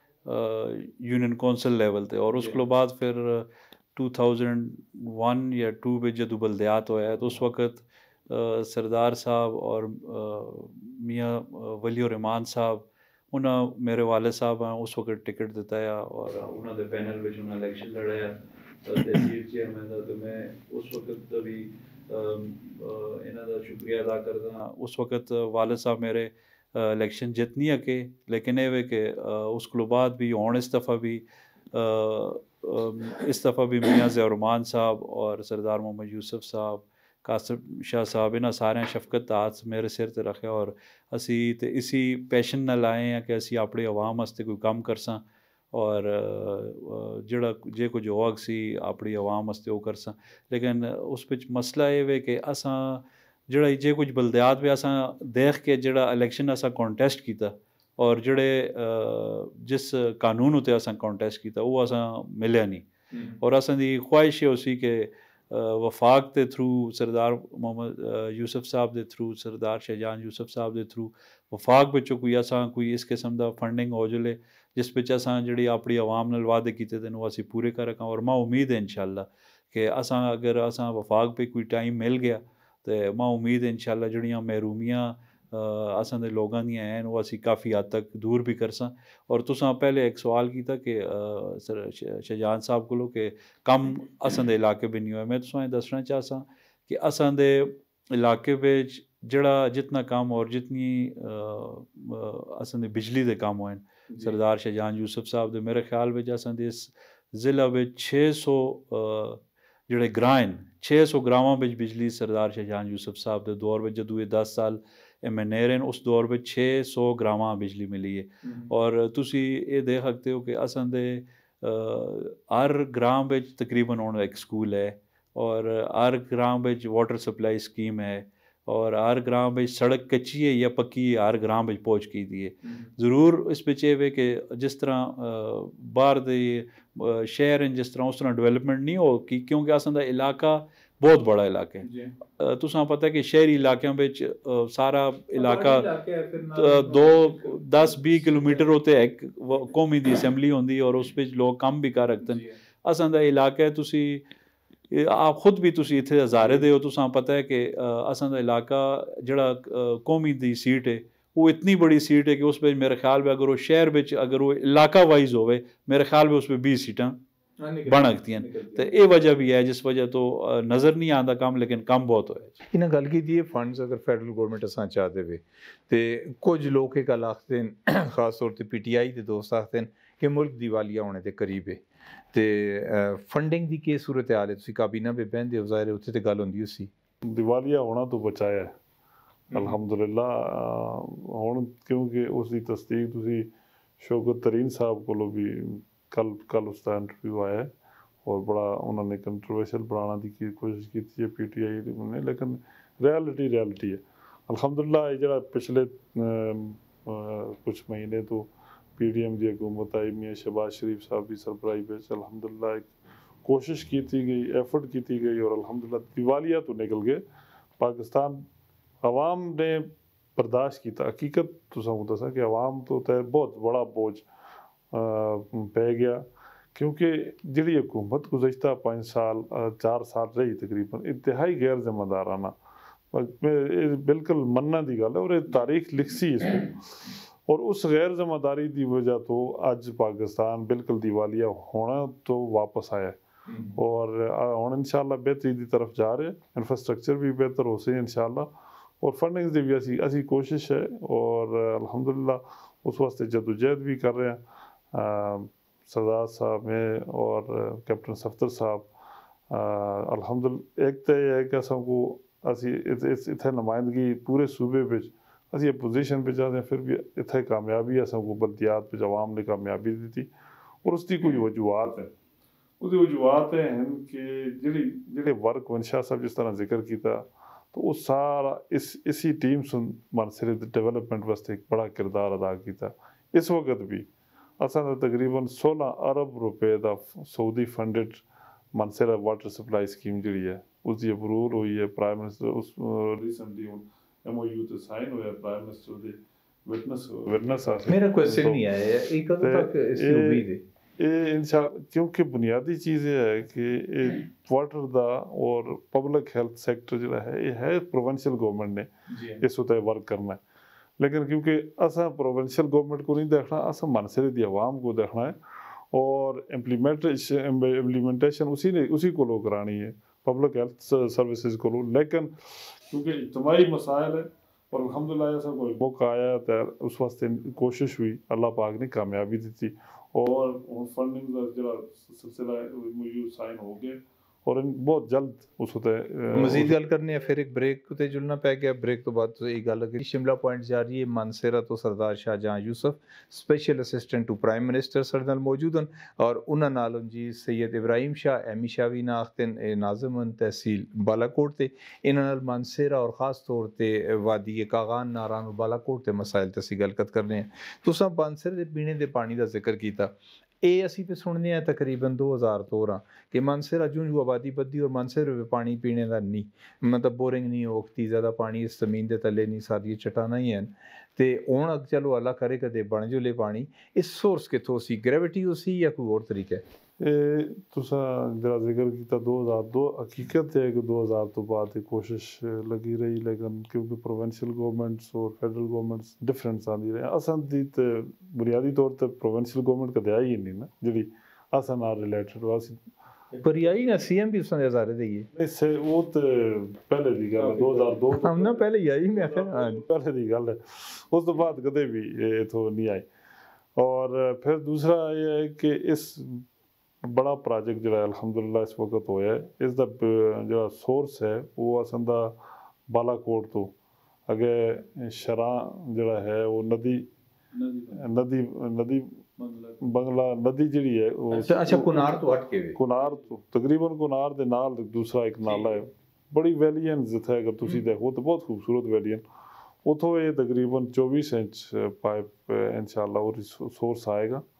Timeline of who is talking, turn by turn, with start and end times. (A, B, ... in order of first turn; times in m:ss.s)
0:00.2-1:02.8 A
1:03.1-1:03.4 B
1:03.4-2:21.8 A
1:44.1-1:44.4 B
1:58.4-1:58.7 B
2:12.6-2:12.9 B
2:21.8-2:22.1 B
2:22.4-2:25.9 A
2:25.3-2:28.7 B
2:26.5-2:34.2 A
2:32.2-2:32.5 B
2:34.9-2:47.2 A
2:36.4-2:36.7 B
2:47.6-2:48.9 B
2:47.8-2:52.6 A
2:52.7-3:06.9 B
3:07.2-3:08.7 C
3:09.5-3:09.8 B
3:09.5-3:17.7 C
3:18.2-3:32.9 C
3:33.4-3:37.2 C
3:37.8-3:38.5 C
3:39.0-3:44.3 C
3:44.9-3:52.5 C
3:53.1-4:03.2 C
4:03.5-4:03.8 B
4:03.7-4:18.9 C
4:19.5-4:30.3 C
4:30.8-4:32.1 C
4:32.8-4:44.1 C
4:44.6-4:58.6 C
4:57.9-5:00.6 B
4:59.4-5:08.9 C
5:09.1-5:09.4 B
5:09.4-5:10.4 C
5:11.0-5:36.7 C
5:36.3-6:16.6 B
6:17.0-6:32.8 C
6:33.4-6:35.3 B
6:35.3-6:43.1 C
6:37.6-6:39.8 B
6:43.8-6:46.4 C
6:47.0-6:52.4 C
6:52.9-6:53.7 C
6:54.3-6:57.1 C
6:57.5-6:58.0 A
6:57.9-6:59.2 C
6:59.4-6:59.9 A
6:59.8-7:09.2 C
7:01.3-7:02.8 B
7:09.8-7:14.4 C